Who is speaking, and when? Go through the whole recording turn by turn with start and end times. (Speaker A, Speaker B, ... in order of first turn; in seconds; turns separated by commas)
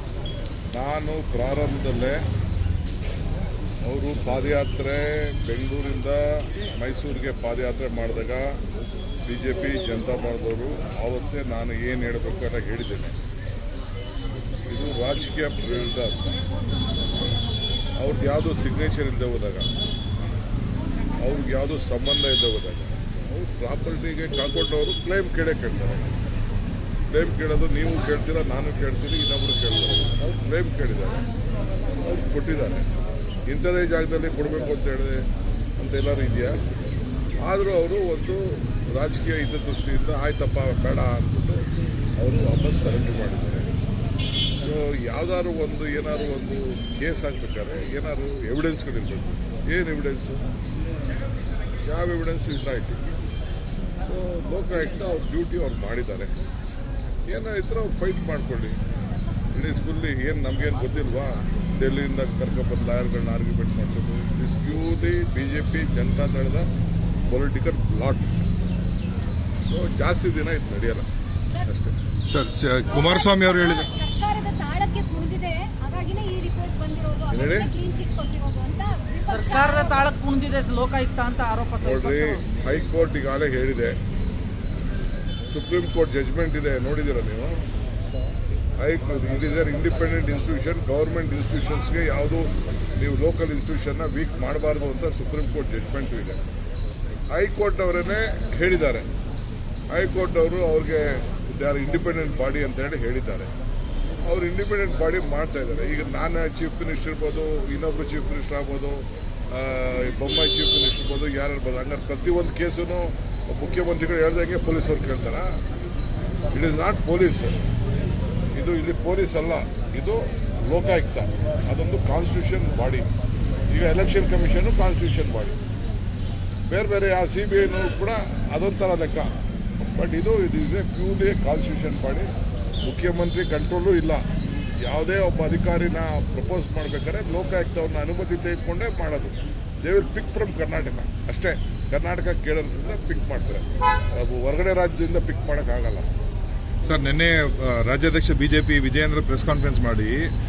Speaker A: 0.7-2.2, Speaker A: 3.8-8.4, Speaker A: 9.3-13.1, Speaker A: 14.7-16.3, Speaker A: 18.0-19.6, Speaker A: 21.2-26.1, Speaker A: 27.1-31.2, Speaker A: 32.0-32.8, Speaker A: 33.5-35.2, Speaker A: 35.8-36.5, Speaker A: 37.4-41.6, Speaker A: 42.2-43.7, Speaker A: 44.6-50.4, Speaker A: 51.9-53.0, Speaker A: 54.0-56.3, Speaker A: 57.3-58.8, Speaker A: 59.5-66.7, Speaker A: 67.3-68.3, Speaker A: 69.7-71.0, Speaker A: 71.7-71.9, Speaker B: 72.2-73.9, Speaker C: 72.9-80.1, Speaker A: 77.3-77.7, Speaker D: 79.3-82.4, Speaker A: 81.8-83.9, Speaker A: 85.5-87.5, Speaker A: 88.8-96.4, Speaker A: 97.3-99.1, Speaker A: 99.9-103.5, Speaker A: 104.2-115.5, Speaker A: 116.5-117.6, Speaker A: 118.5-123.1, Speaker A: 123.7-125.5, Speaker A: 126.7-129.3, Speaker A: 129.8-132.3, Speaker A: 132.8-134.2, Speaker A: 134.8-146.1, Speaker B: 146.8-150.3